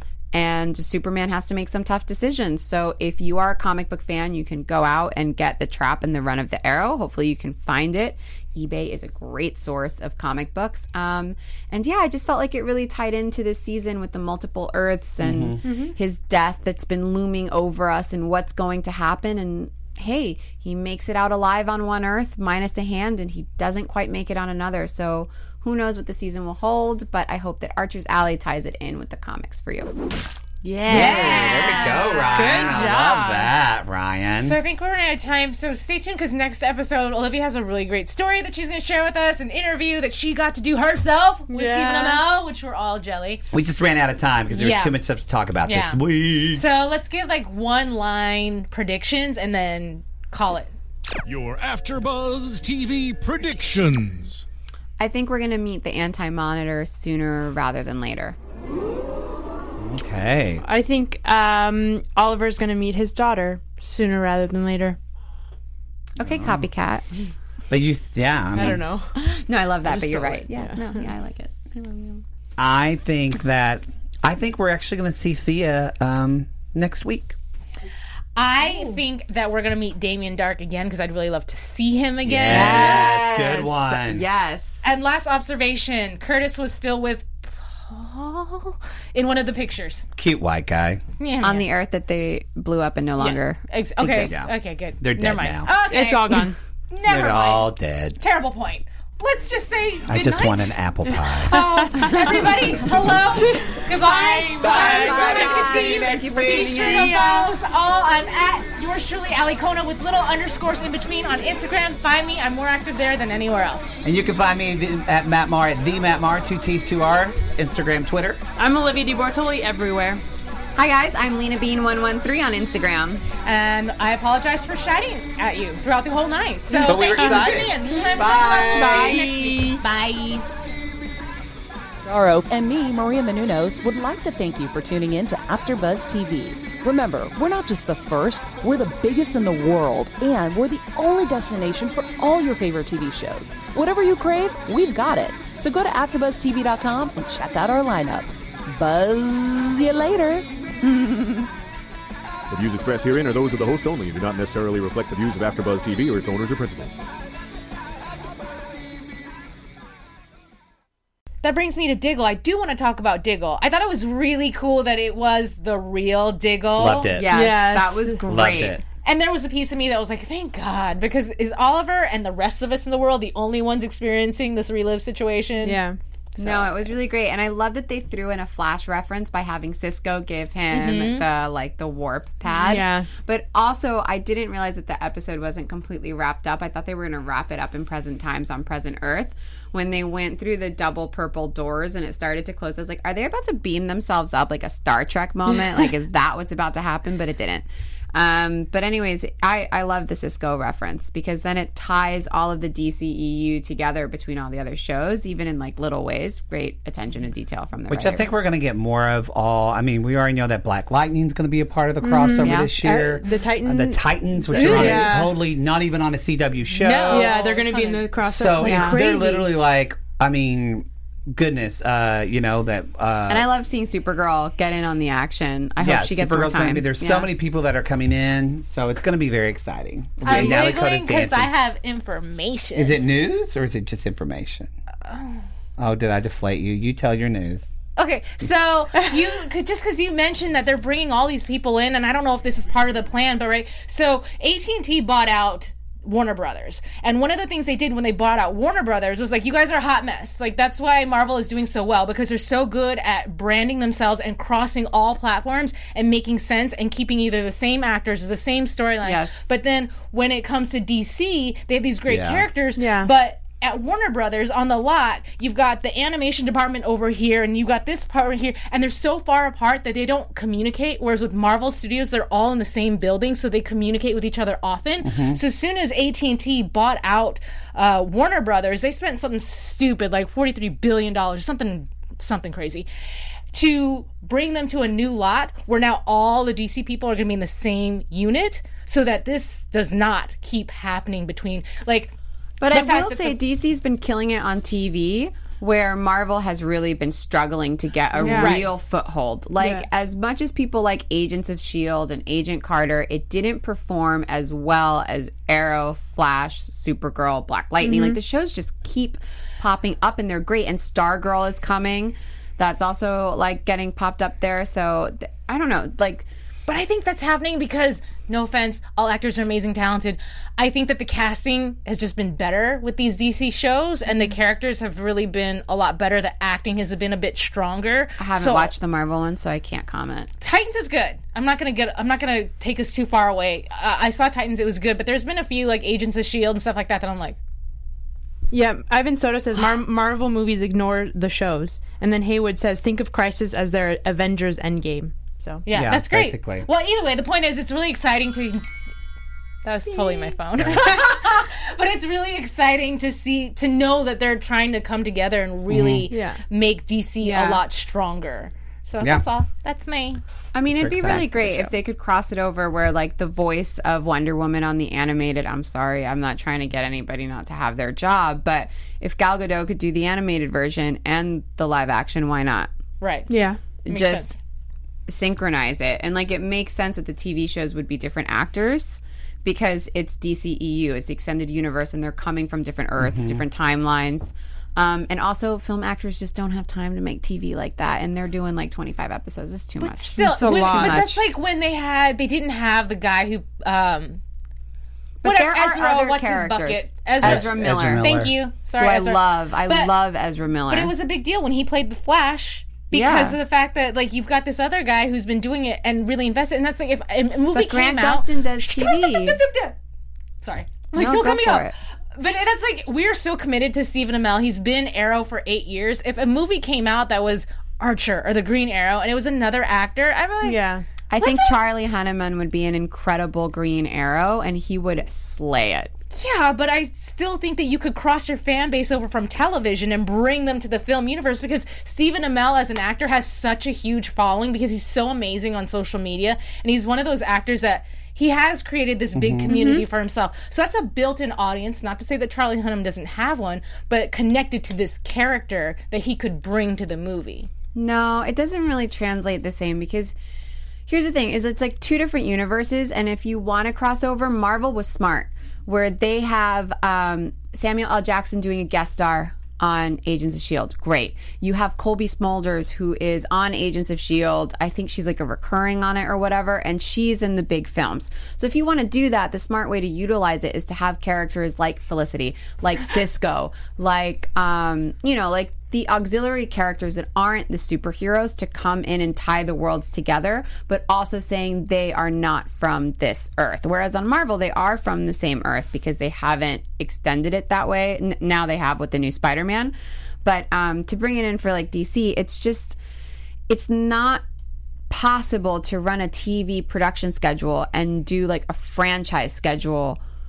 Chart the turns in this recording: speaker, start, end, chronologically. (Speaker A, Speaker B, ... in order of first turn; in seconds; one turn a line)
Speaker A: 0.3-30.0
Speaker B: 15.2-15.6
Speaker C: 15.6-15.9
Speaker C: 30.6-33.5
Speaker B: 30.9-34.6
Speaker D: 30.9-32.9
Speaker D: 34.4-43.4
Speaker C: 41.5-42.2
Speaker B: 43.5-46.7
Speaker D: 44.5-45.0
Speaker D: 45.6-50.7
Speaker E: 51.2-54.5
Speaker A: 55.0-58.4
Speaker B: 59.8-60.6
Speaker C: 60.6-65.0
Speaker A: 66.2-67.1
Speaker B: 66.2-66.7
Speaker B: 67.7-68.8
Speaker C: 68.6-69.1
Speaker A: 69.2-72.2
Speaker C: 69.9-70.8
Speaker B: 72.6-77.4
Speaker D: 78.4-83.1
Speaker B: 82.2-84.2
Speaker A: 82.5-84.8
Speaker D: 84.8-90.1
Speaker B: 90.2-91.0
Speaker D: 91.2-91.7
Speaker A: 91.4-94.4
Speaker D: 93.2-100.8
Speaker B: 94.2-95.7
Speaker C: 95.9-96.6
Speaker B: 97.1-98.2
Speaker B: 100.1-101.7
Speaker D: 101.5-114.0
Speaker C: 101.5-102.4
Speaker B: 102.4-103.2
Speaker C: 103.7-105.5
Speaker B: 104.6-106.9
Speaker A: 104.7-107.2
Speaker C: 106.8-107.5
Speaker B: 114.0-118.4
Speaker C: 118.6-120.2
Speaker A: 120.8-123.2
Speaker D: 123.4-130.5
Speaker C: 126.7-127.7
Speaker B: 126.8-129.2
Speaker C: 128.7-129.8
Speaker F: 132.1-150.5
Speaker A: 150.8-151.5
Speaker E: 152.5-156.9
Speaker D: 161.4-167.2
Speaker B: 166.8-167.5
Speaker A: 167.1-168.8
Speaker C: 167.3-168.2
Speaker B: 168.3-168.8
Speaker D: 169.0-175.8
Speaker C: 175.6-176.0
Speaker A: 176.4-208.4
Speaker D: 176.4-176.7
Speaker D: 180.7-181.3
Speaker C: 182.7-183.1
Speaker B: 207.9-217.3
Speaker C: 212.0-215.3
Speaker A: 212.4-212.7
Speaker D: 214.6-215.0
Speaker A: 214.6-215.0
Speaker D: 216.7-218.1
Speaker C: 217.1-219.5
Speaker B: 218.2-223.5
Speaker A: 218.6-219.0
Speaker A: 223.3-227.3
Speaker B: 225.8-231.5
Speaker D: 230.2-233.0
Speaker B: 232.7-234.7
Speaker D: 235.1-235.4
Speaker B: 235.8-237.7
Speaker D: 238.0-282.9
Speaker A: 259.0-259.4
Speaker B: 262.1-262.5
Speaker C: 262.8-263.1
Speaker B: 275.0-275.4
Speaker D: 283.5-292.1
Speaker A: 292.6-316.3
Speaker D: 292.7-293.4
Speaker C: 298.2-298.6
Speaker D: 298.2-298.8
Speaker C: 307.8-308.2
Speaker D: 316.7-328.7
Speaker A: 328.2-330.3
Speaker D: 330.4-337.4
Speaker C: 338.5-345.6
Speaker D: 345.7-348.7
Speaker B: 345.7-346.7
Speaker D: 349.6-360.2
Speaker C: 349.9-350.9
Speaker B: 350.6-350.9
Speaker B: 355.7-356.1
Speaker C: 356.1-356.4
Speaker A: 357.2-357.6
Speaker A: 360.5-372.7
Speaker B: 360.7-361.7
Speaker D: 373.0-373.3
Speaker C: 373.3-373.6
Speaker A: 373.9-374.4
Speaker D: 373.9-374.4
Speaker A: 375.1-391.2
Speaker B: 383.0-383.4
Speaker D: 389.8-394.2
Speaker C: 390.3-391.0
Speaker A: 395.2-398.1
Speaker D: 395.2-399.9
Speaker B: 397.2-398.3
Speaker A: 398.8-400.9
Speaker D: 400.7-409.8
Speaker A: 402.9-403.4
Speaker A: 407.5-409.4
Speaker D: 410.4-420.6
Speaker A: 410.9-411.7
Speaker C: 420.4-420.8
Speaker A: 421.1-425.9
Speaker D: 421.2-421.6
Speaker D: 426.1-447.5
Speaker B: 439.1-439.5
Speaker C: 439.5-439.9
Speaker A: 447.8-450.1
Speaker A: 450.9-492.8
Speaker A: 493.5-494.2
Speaker A: 494.9-500.0